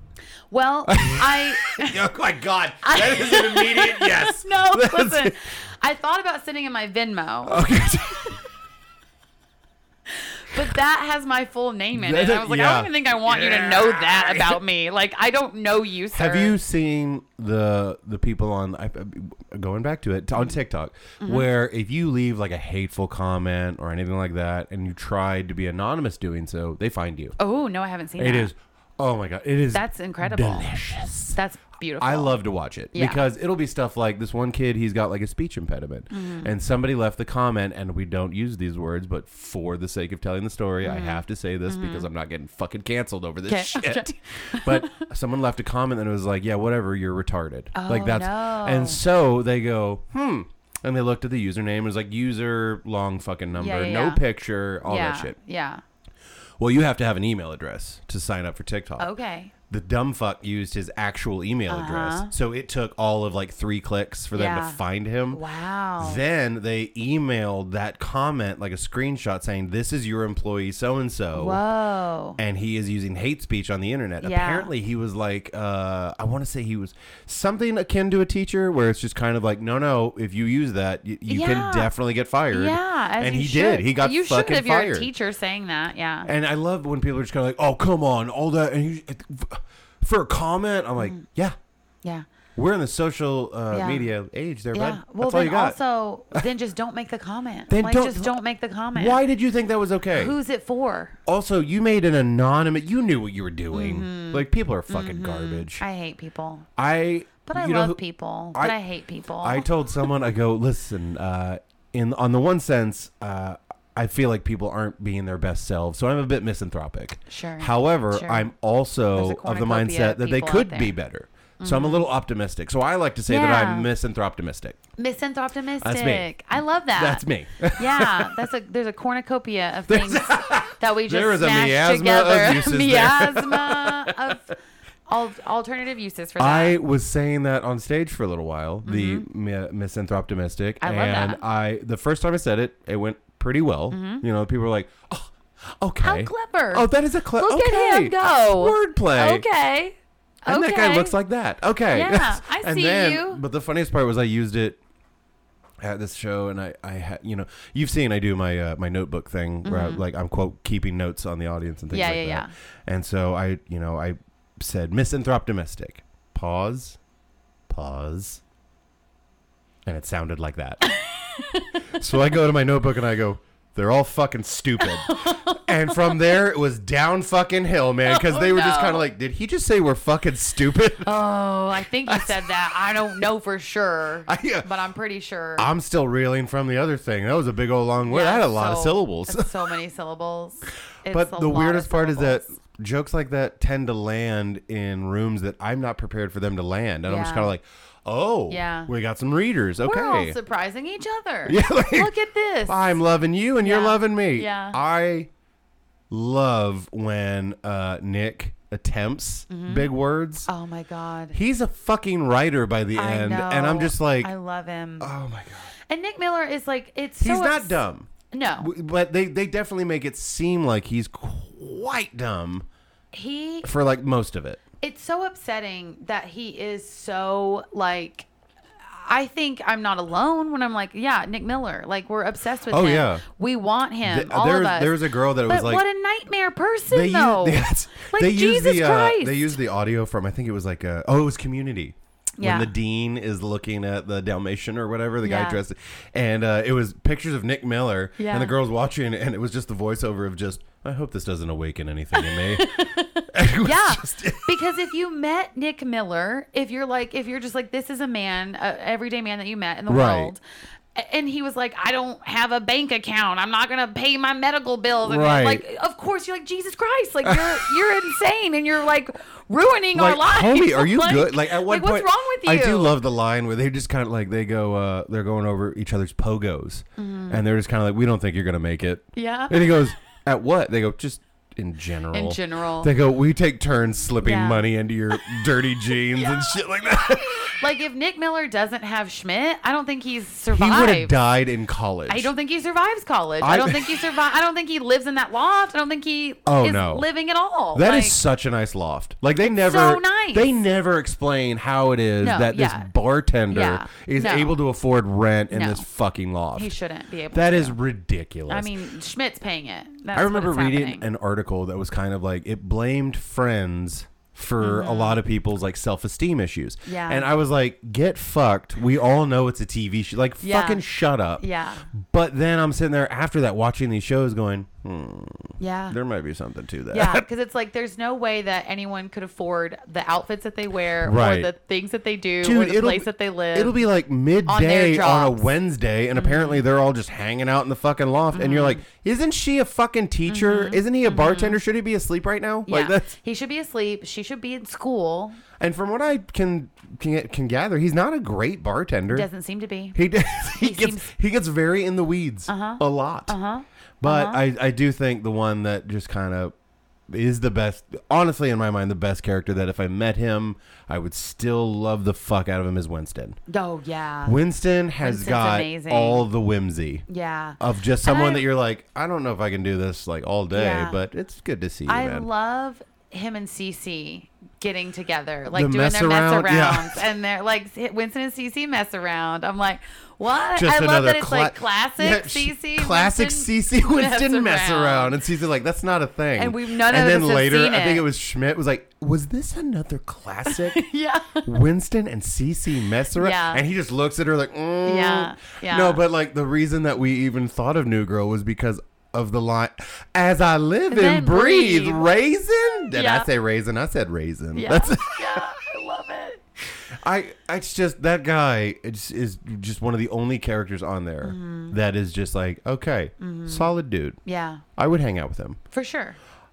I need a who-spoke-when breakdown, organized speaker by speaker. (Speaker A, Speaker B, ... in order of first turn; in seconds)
Speaker A: 0.5-2.1, 2.8-7.7, 10.1-16.6, 21.2-21.5, 27.4-28.5, 29.7-30.7, 31.3-32.4, 32.9-33.2, 36.1-36.5, 40.8-42.1, 43.5-44.9, 47.7-49.0, 53.6-54.2, 54.9-55.8, 59.0-59.5, 61.7-62.3, 64.3-64.8, 65.3-66.2, 71.3-72.4, 74.2-74.7, 81.3-81.9, 82.5-86.3, 93.7-94.1, 94.7-99.2, 100.1-101.2, 103.7-106.7, 107.5-109.7, 117.3-118.5, 119.2-121.0, 121.6-122.1, 123.3-123.9, 125.0-127.2, 127.8-134.6, 135.1-136.8, 138.8-139.3, 140.8-141.4, 143.9-144.2, 146.0-151.2, 151.9-153.4, 159.6-160.0, 161.9-162.5, 170.8-172.0, 174.8-176.4, 178.1-179.1, 181.0-185.7, 188.0-192.5, 197.1-197.5, 198.5-198.9, 199.8-203.0, 203.6-204.8, 209.5-209.9, 210.5-211.4, 212.9-215.1, 215.9-218.7, 223.1-223.7, 224.8-228.3, 228.9-239.6, 242.4-242.7, 245.2-245.6, 248.2-248.5, 252.1-260.4, 260.9-273.0, 277.0-277.4, 279.1-279.7, 282.1-282.9, 284.2-284.6, 286.1-291.1, 292.1-298.2, 299.4-300.6, 302.2-302.9, 303.5-304.6, 305.5-305.9, 306.5-307.8, 308.5-311.1, 314.6-315.2, 316.9-317.3, 320.4-320.8, 321.4-321.9, 325.6-326.0, 326.9-333.8, 334.5-335.5, 336.1-336.6, 338.3-338.8, 340.3-341.6, 342.7-345.4, 349.1-351.1, 352.5-354.4, 363.5-364.4, 365.0-366.3, 367.1-368.4, 370.5-371.0, 371.9-385.2, 386.4-388.1, 390.5-391.5, 393.1-393.6, 394.9-396.0, 400.9-402.1, 402.9-403.3, 404.6-406.4, 411.2-411.8, 413.2-413.7, 414.2-414.6, 415.7-416.2
Speaker B: 0.9-5.4, 7.5-8.4, 11.9-14.6, 16.1-27.4, 28.2-31.4, 32.0-55.4, 56.6-59.1, 59.7-65.4, 66.0-71.6, 72.4-85.1, 86.2-91.6, 92.6-95.8, 97.7-98.4, 98.9-100.3, 101.3-105.8, 106.8-108.0, 109.4-124.8, 125.8-126.3, 126.9-128.4, 129.9-134.3, 136.4-149.4, 150.5-154.8, 155.8-167.0, 167.7-168.4, 169.9-170.9, 171.9-181.1, 182.1-182.4, 184.3-184.7, 185.6-189.6, 191.1-200.4, 201.5-202.1, 202.7-205.3, 206.1-210.5, 211.3-214.3, 215.0-215.7, 217.2-222.7, 223.6-224.6, 232.7-233.2, 234.0-235.8, 236.9-254.5, 259.9-260.3, 265.0-265.6, 267.2-267.7, 269.9-287.5, 290.5-292.3, 293.4-294.0, 296.5-297.1, 297.7-306.7, 307.3-308.8, 310.1-327.2, 331.0-331.5, 332.4-343.1, 345.6-349.3, 349.9-353.4, 354.0-356.5, 357.1-363.4, 364.2-367.1, 367.6-372.3, 375.5-377.1, 380.5-390.8, 391.4-405.5, 406.9-414.2, 414.8-415.6